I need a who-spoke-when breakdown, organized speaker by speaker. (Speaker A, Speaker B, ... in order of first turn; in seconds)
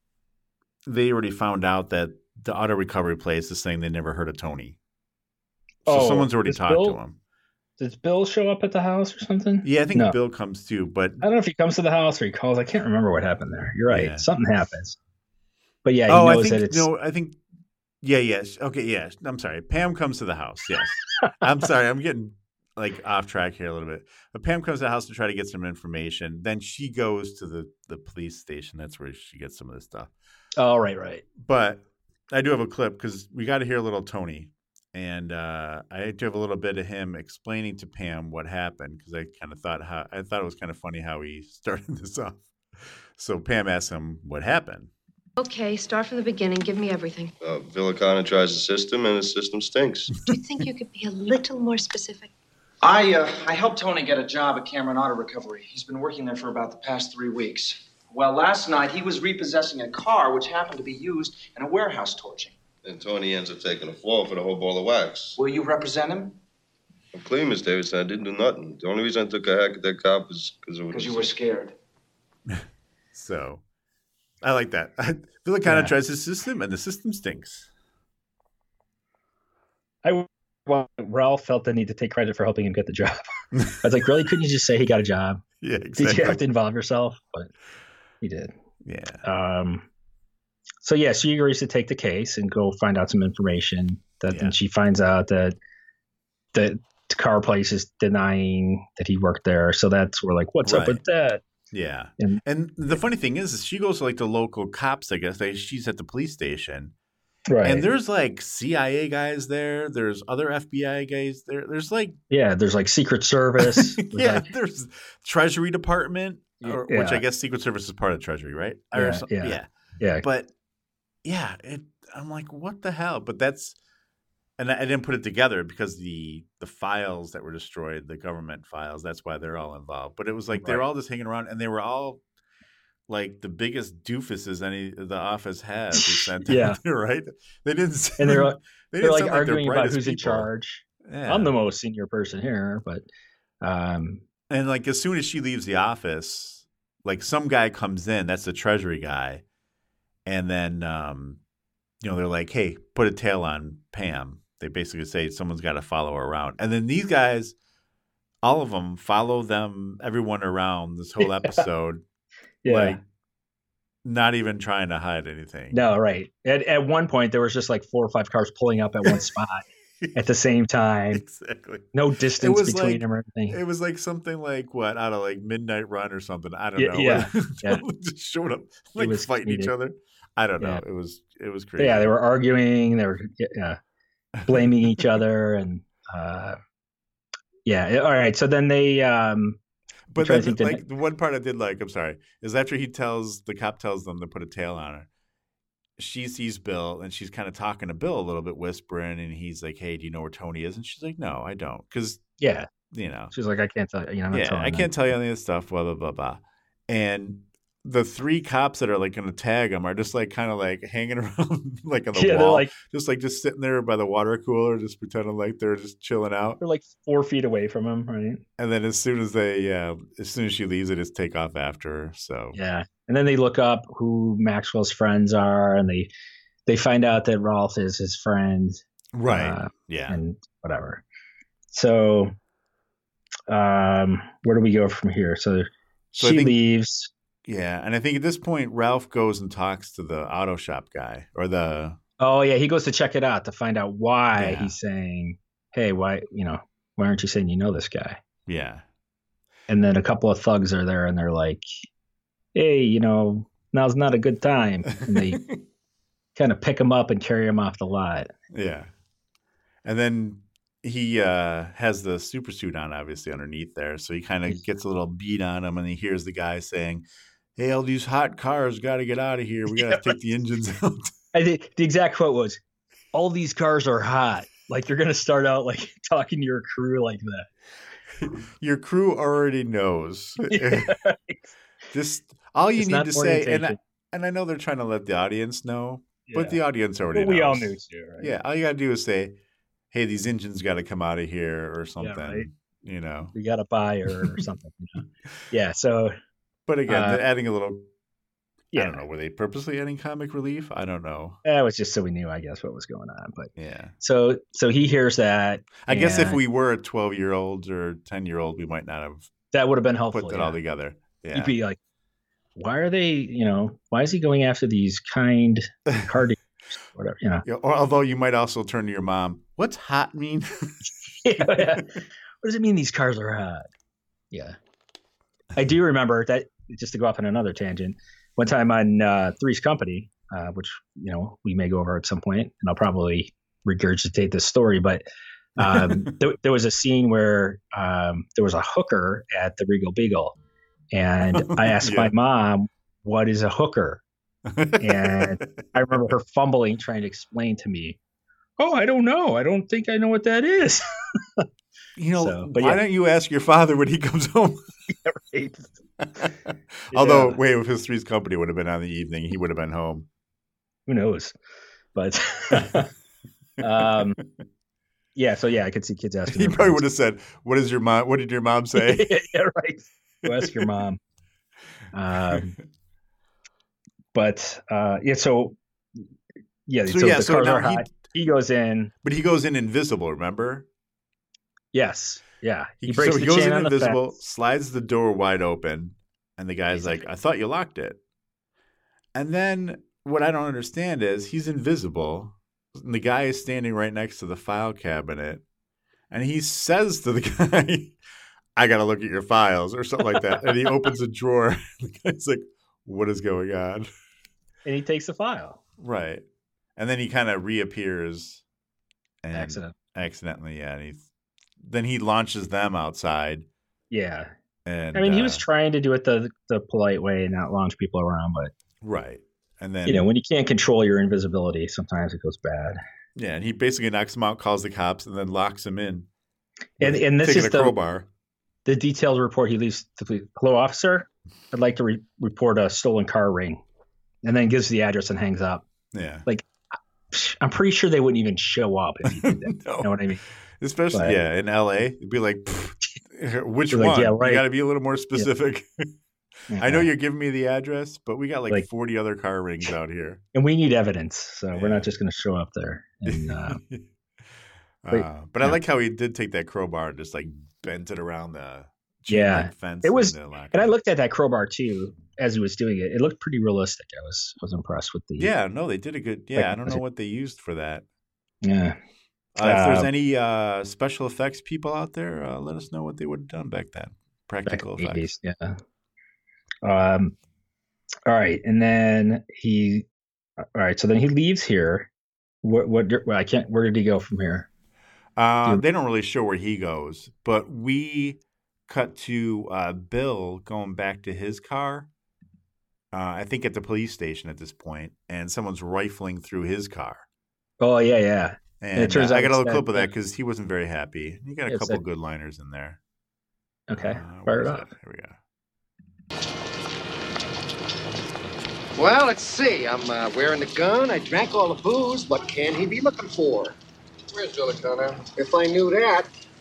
Speaker A: 0.8-4.8, 5.9-7.2, 9.6-11.2, 13.9-14.2, 16.1-17.4, 18.0-30.1, 31.4-44.9, 73.1-73.6, 74.4-77.7, 85.6-86.4, 88.8-89.2, 94.3-94.5, 100.6-101.0, 101.7-106.9, 107.6-112.2, 113.6-119.7, 120.2-120.5, 121.2-123.8, 124.6-132.2, 133.1-140.5, 141.0-141.5, 144.5-149.4, 150.2-151.4, 152.0-157.5, 158.4-162.0, 162.7-163.0, 164.0-165.8, 171.1-182.1, 184.4-185.1, 190.1-195.1, 196.0-202.2, 202.9-203.3, 204.3-216.6, 218.6-222.6, 229.1-230.2, 236.2-236.6, 237.4-242.0, 244.4-244.7, 248.5-248.8, 255.1-255.6, 258.5-258.9, 259.8-267.1, 267.6-271.1, 278.2-280.9, 281.9-289.4, 289.9-293.4, 294.1-294.3, 296.7-297.9, 298.7-301.4, 303.6-303.9, 305.8-309.3, 310.1-311.5, 317.4-320.7, 321.4-321.8, 335.6-336.1, 341.3-342.1, 344.5-345.9, 352.0-354.6, 356.9-360.1, 363.7-364.0, 366.3-369.2, 370.2-370.7, 376.9-377.9, 379.0-380.7, 382.8-388.0, 389.1-395.4, 396.1-398.0, 398.6-403.9, 405.8-406.2, 406.8-408.4, 409.2-411.1, 411.6-413.5, 414.6-415.4, 418.8-420.1, 423.1-426.1, 426.8-428.1, 435.9-436.2, 439.2-439.9, 440.6-445.9, 446.6-450.2, 451.5-451.9, 453.1-453.9, 454.8-460.7, 465.2-467.9, 469.4-475.1, 485.2-491.9, 492.9-497.1, 498.6-502.8, 503.7-505.2
Speaker B: 5.9-7.0, 7.8-10.2, 11.2-15.0, 15.8-16.9, 30.6-31.2, 75.6-75.9, 80.0-83.3, 83.8-85.4, 86.0-87.5, 88.2-88.5, 89.2-89.9, 90.8-95.5, 96.5-101.4, 107.5-107.9, 112.3-114.5, 116.6-117.2, 118.9-120.2, 130.5-130.8, 135.9-136.8, 138.2-143.1, 143.6-144.2, 161.2-161.6, 162.6-163.0, 165.7-171.2, 171.9-173.6, 176.8-177.8, 179.0-179.7, 181.8-183.8, 184.5-186.6, 187.7-189.6, 190.2-190.8, 202.4-202.7, 203.3-204.9, 212.1-212.7, 216.6-218.4, 222.5-226.1, 226.7-231.0, 231.7-232.3, 233.5-237.1, 242.2-248.2, 249.7-251.6, 252.5-255.4, 256.4-258.3, 269.8-270.0, 271.3-272.6, 273.1-277.5, 280.4-281.5, 282.8-283.8, 286.3-286.6, 287.1-288.4, 292.0-292.5, 293.4-296.1, 296.9-297.2, 298.7-299.0, 301.4-306.4, 309.5-310.6, 311.3-311.8, 312.6-316.4, 316.9-317.4, 321.2-323.6, 324.3-324.6, 325.6-335.0, 335.6-340.4, 340.9-344.0, 344.8-348.0, 348.6-350.8, 352.1-352.8, 354.9-355.7, 356.9-357.4, 360.9-361.3, 361.9-362.9, 363.6-364.2, 365.1-366.8, 368.7-371.0, 371.9-372.5, 374.1-375.6, 376.7-378.9, 381.7-384.1, 386.7-387.0, 404.6-405.6, 409.3-409.7, 413.9-414.3, 414.9-418.5, 419.9-422.8, 426.8-427.8, 428.6-433.6, 434.2-435.6, 437.1-440.2, 440.9-441.2, 443.7-444.4, 446.5-446.9, 450.3-453.6, 454.9-455.6, 459.1-465.3, 466.4-466.8, 468.4-468.8, 469.4-469.9, 474.4-475.6, 476.6-477.1, 478.1-479.9, 480.4-481.9, 482.4-484.5, 497.6-499.9, 501.5-501.8, 503.7-504.7
Speaker C: 45.4-47.3, 50.3-52.3
Speaker D: 47.4-50.1, 62.9-65.4, 67.1-71.3
Speaker E: 52.8-62.5, 65.4-66.4, 70.9-71.7
Speaker F: 508.8-513.6, 514.1-516.1